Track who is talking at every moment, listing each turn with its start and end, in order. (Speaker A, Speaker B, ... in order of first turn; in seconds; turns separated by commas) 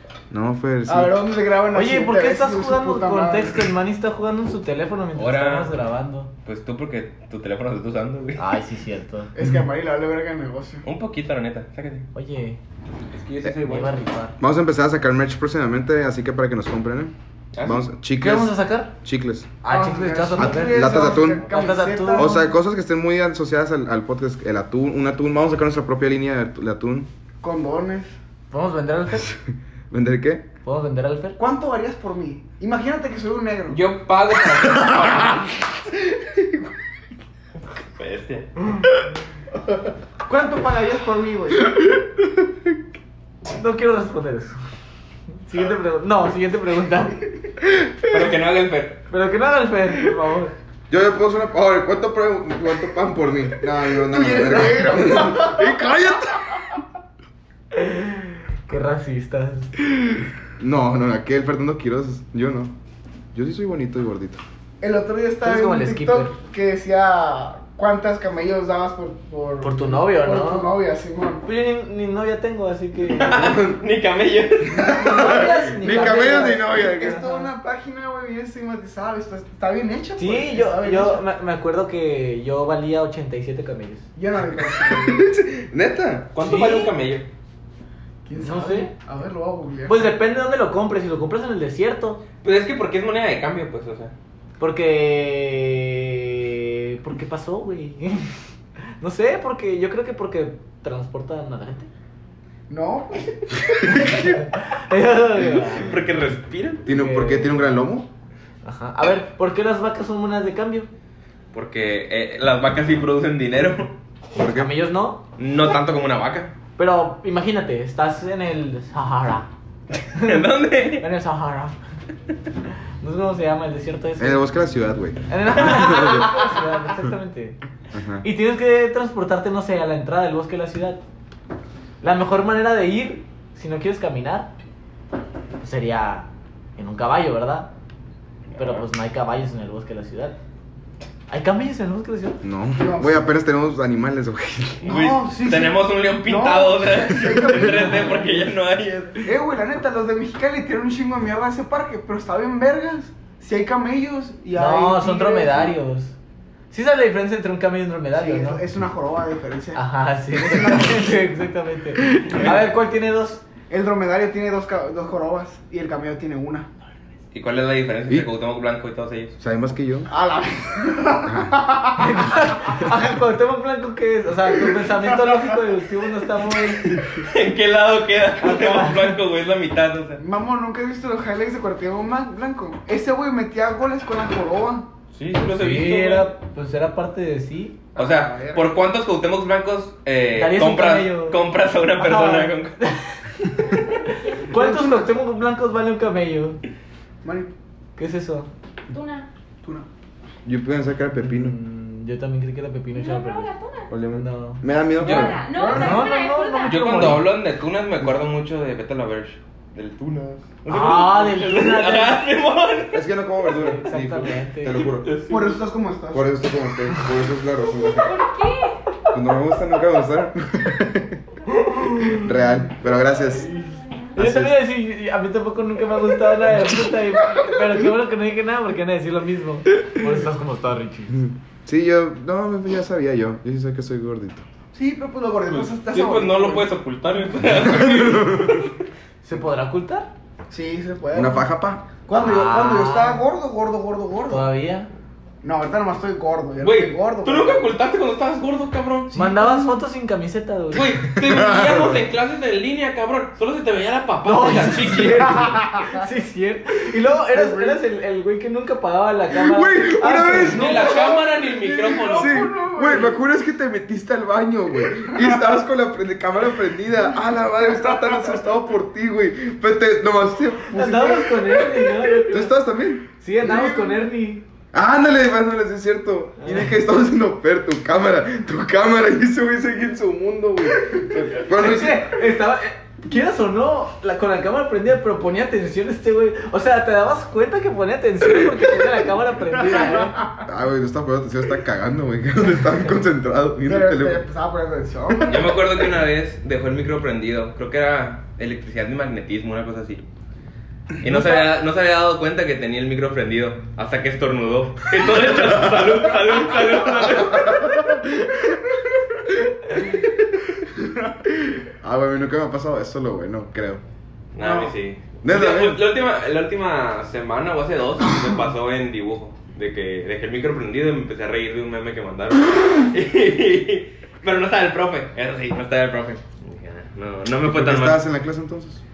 Speaker A: 0.3-1.1, Speaker B: 0.8-3.6, Speaker C: 1.7-6.3, Speaker D: 5.1-5.7, Speaker D: 6.4-8.4, Speaker C: 8.4-9.3, Speaker B: 9.3-10.8, Speaker D: 10.8-12.1, Speaker C: 12.1-12.6, Speaker D: 13.1-14.0, Speaker C: 13.6-14.4, Speaker A: 14.4-19.5, Speaker D: 17.5-17.9, Speaker C: 18.2-18.9, Speaker C: 19.6-22.4, Speaker B: 19.7-22.4, Speaker A: 20.4-21.4, Speaker A: 22.1-27.1, Speaker B: 27.4-28.1, Speaker C: 28.5-29.3, Speaker A: 29.9-30.5, Speaker C: 30.6-31.4, Speaker B: 31.4-33.8, Speaker D: 33.7-35.6, Speaker D: 38.0-38.5, Speaker B: 40.2-41.7, Speaker C: 43.5-44.5, Speaker C: 45.5-47.2, Speaker D: 48.0-49.0, Speaker C: 49.1-50.5, Speaker A: 50.9-56.6, Speaker B: 53.9-55.8, Speaker C: 57.7-59.7, Speaker A: 60.6-62.7, Speaker A: 63.3-64.4, Speaker B: 64.8-71.4, Speaker C: 65.4-66.3, Speaker C: 69.6-70.7, Speaker C: 71.4-73.5, Speaker D: 73.1-75.1, Speaker A: 73.3-73.8, Speaker A: 74.7-77.2, Speaker C: 75.0-77.5, Speaker B: 75.1-81.2, Speaker C: 80.2-84.0, Speaker B: 84.2-85.3, Speaker A: 84.5-86.3, Speaker D: 86.3-87.3, Speaker C: 86.4-86.9, Speaker B: 88.2-90.1, Speaker C: 88.3-88.9, Speaker C: 89.8-92.2, Speaker D: 92.4-94.1, Speaker C: 94.6-98.3, Speaker C: 99.0-101.9, Speaker B: 102.7-104.3, Speaker C: 104.0-106.0, Speaker D: 105.7-106.8, Speaker A: 106.8-108.1, Speaker C: 106.9-107.7, Speaker C: 108.6-110.9, Speaker D: 111.5-113.9, Speaker A: 114.3-114.7, Speaker C: 114.3-115.2, Speaker D: 115.4-116.5, Speaker C: 116.8-119.5, Speaker C: 120.1-121.8, Speaker D: 120.1-121.0, Speaker C: 123.0-124.4, Speaker A: 124.2-126.2, Speaker C: 125.3-127.6, Speaker A: 127.9-128.2, Speaker C: 128.2-131.0, Speaker C: 132.0-134.5, Speaker C: 135.6-137.7, Speaker D: 138.5-138.8, Speaker C: 138.6-140.3, Speaker C: 141.3-142.4, Speaker A: 142.4-144.9, Speaker B: 142.8-143.3, Speaker D: 144.8-149.3, Speaker B: 144.8-148.4, Speaker C: 147.7-148.2, Speaker B: 149.2-155.8, Speaker C: 154.5-156.1, Speaker C: 156.7-158.6, Speaker B: 158.1-161.1, Speaker C: 159.7-163.4, Speaker B: 162.1-162.6, Speaker B: 163.7-166.7, Speaker D: 167.3-169.3, Speaker A: 169.4-170.1, Speaker B: 170.1-172.2, Speaker A: 171.2-171.5, Speaker C: 171.9-177.0, Speaker B: 174.6-175.5, Speaker D: 177.0-180.2, Speaker C: 178.4-179.2, Speaker B: 180.2-184.9, Speaker D: 185.1-186.3, Speaker C: 185.4-187.8, Speaker B: 187.9-188.7, Speaker D: 187.9-192.8, Speaker C: 190.3-191.4, Speaker C: 192.0-196.6, Speaker E: 193.7-194.6, Speaker B: 194.5-195.1, Speaker B: 197.2-197.5, Speaker C: 198.0-198.5, Speaker E: 198.9-199.3, Speaker A: 200.4-201.6, Speaker C: 201.2-203.5, Speaker E: 202.9-203.9, Speaker A: 203.9-205.5, Speaker C: 204.1-204.6, Speaker E: 205.0-207.2, Speaker D: 205.0-205.4, Speaker B: 205.5-206.2, Speaker C: 205.7-207.3, Speaker D: 206.7-213.0, Speaker C: 210.7-212.2, Speaker A: 212.9-215.1, Speaker C: 213.5-214.8, Speaker D: 214.8-215.6, Speaker B: 215.3-216.3, Speaker A: 216.1-218.2, Speaker E: 217.7-218.8, Speaker A: 219.1-221.2, Speaker C: 221.5-222.3, Speaker A: 222.1-223.5, Speaker E: 223.6-224.1, Speaker A: 224.1-224.6, Speaker C: 224.2-231.2, Speaker A: 231.2-234.4, Speaker B: 234.7-236.7, Speaker D: 235.5-238.8, Speaker A: 237.6-238.6, Speaker C: 239.2-240.1, Speaker B: 240.5-241.5, Speaker A: 241.1-241.8, Speaker B: 242.0-244.5, Speaker C: 242.2-243.2, Speaker C: 244.3-244.9, Speaker B: 245.4-247.7, Speaker D: 246.6-249.1, Speaker B: 249.1-249.7, Speaker C: 249.1-251.0, Speaker D: 250.7-255.5, Speaker A: 251.2-252.0, Speaker C: 254.2-260.7, Speaker B: 257.3-257.8, Speaker A: 259.3-260.9, Speaker B: 260.3-263.2, Speaker D: 260.3-262.4, Speaker A: 262.1-271.2, Speaker B: 265.1-265.4, Speaker B: 267.7-268.4, Speaker C: 270.7-272.6, Speaker B: 270.7-271.7, Speaker A: 272.1-273.0, Speaker C: 273.2-274.4, Speaker B: 273.4-274.0, Speaker A: 274.7-282.1, Speaker C: 276.4-276.8, Speaker C: 281.5-290.2, Speaker B: 289.7-290.4, Speaker A: 290.4-294.2, Speaker B: 293.7-295.6, Speaker D: 295.2-300.0, Speaker D: 301.0-307.9, Speaker A: 301.1-301.4, Speaker A: 307.3-307.7, Speaker A: 311.8-313.8, Speaker D: 314.3-328.0, Speaker B: 314.4-314.7, Speaker A: 315.2-315.8, Speaker A: 327.4-328.8